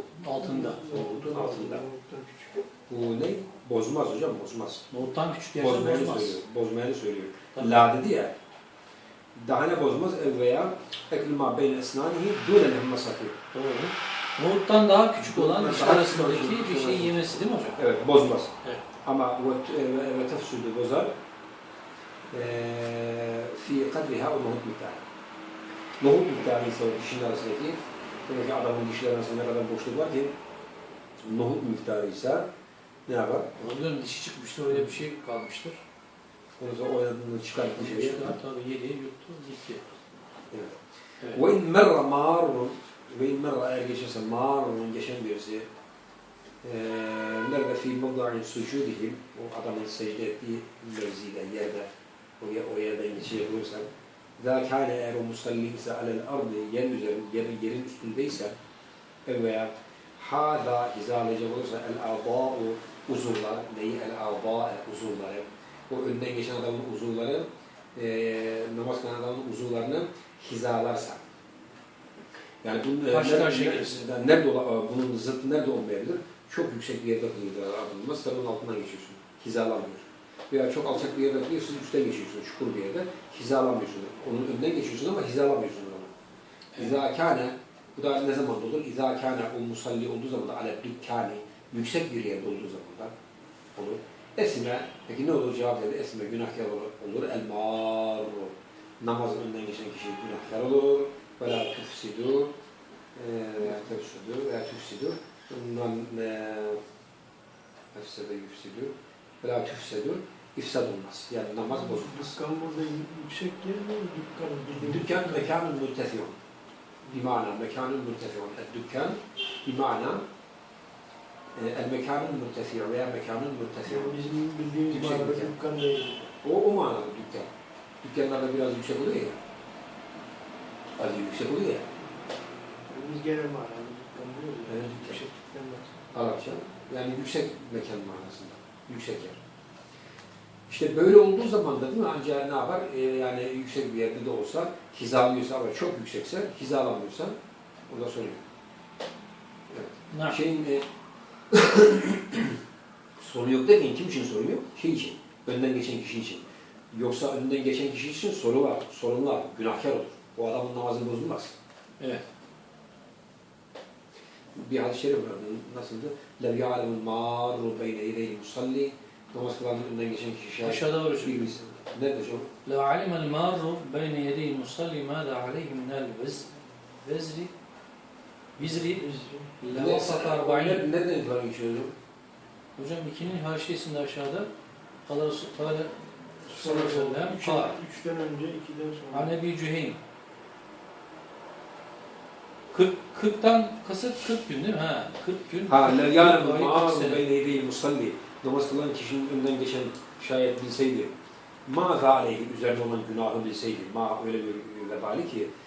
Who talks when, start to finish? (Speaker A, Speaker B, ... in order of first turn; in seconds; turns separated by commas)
Speaker A: 0.2-0.8, Speaker B: 0.4-2.6, Speaker C: 0.9-1.9, Speaker C: 2.9-4.8, Speaker A: 4.9-6.4, Speaker C: 5.6-8.3, Speaker A: 7.5-7.8, Speaker C: 9.3-13.4, Speaker A: 13.5-17.8, Speaker C: 15.2-17.1, Speaker C: 17.8-18.5, Speaker C: 19.0-21.1, Speaker C: 22.3-25.0, Speaker C: 26.0-30.3, Speaker C: 31.2-32.5, Speaker C: 33.1-33.5, Speaker A: 33.6-35.8, Speaker C: 36.6-38.3, Speaker A: 37.8-39.9, Speaker C: 40.5-40.8, Speaker C: 41.3-45.7, Speaker C: 46.6-51.9, Speaker C: 52.4-58.5, Speaker C: 59.2-71.2, Speaker C: 72.6-86.1, Speaker A: 73.1-74.0, Speaker C: 86.8-93.1, Speaker C: 93.7-102.5, Speaker C: 103.1-106.8, Speaker C: 107.9-112.3, Speaker B: 111.7-115.5, Speaker C: 114.8-116.4, Speaker C: 117.1-120.2, Speaker C: 121.5-124.2, Speaker B: 123.8-126.3, Speaker C: 124.9-125.5, Speaker C: 126.3-127.5, Speaker C: 128.0-129.4, Speaker C: 131.0-131.9, Speaker B: 132.9-136.0, Speaker C: 134.7-135.2, Speaker C: 136.1-139.4, Speaker C: 140.7-147.3, Speaker C: 147.9-148.4, Speaker C: 149.7-150.8, Speaker A: 150.1-150.4, Speaker C: 151.5-152.6, Speaker C: 153.2-161.5, Speaker C: 164.5-172.5, Speaker A: 170.6-171.4, Speaker A: 172.6-176.5, Speaker A: 177.0-177.5, Speaker A: 178.6-179.1, Speaker B: 178.6-179.5, Speaker A: 179.6-180.8, Speaker C: 179.7-181.9, Speaker A: 182.8-184.5, Speaker A: 185.1-187.8, Speaker B: 186.5-189.3, Speaker A: 189.1-190.0, Speaker A: 192.7-197.2, Speaker C: 195.7-201.1, Speaker C: 201.7-205.5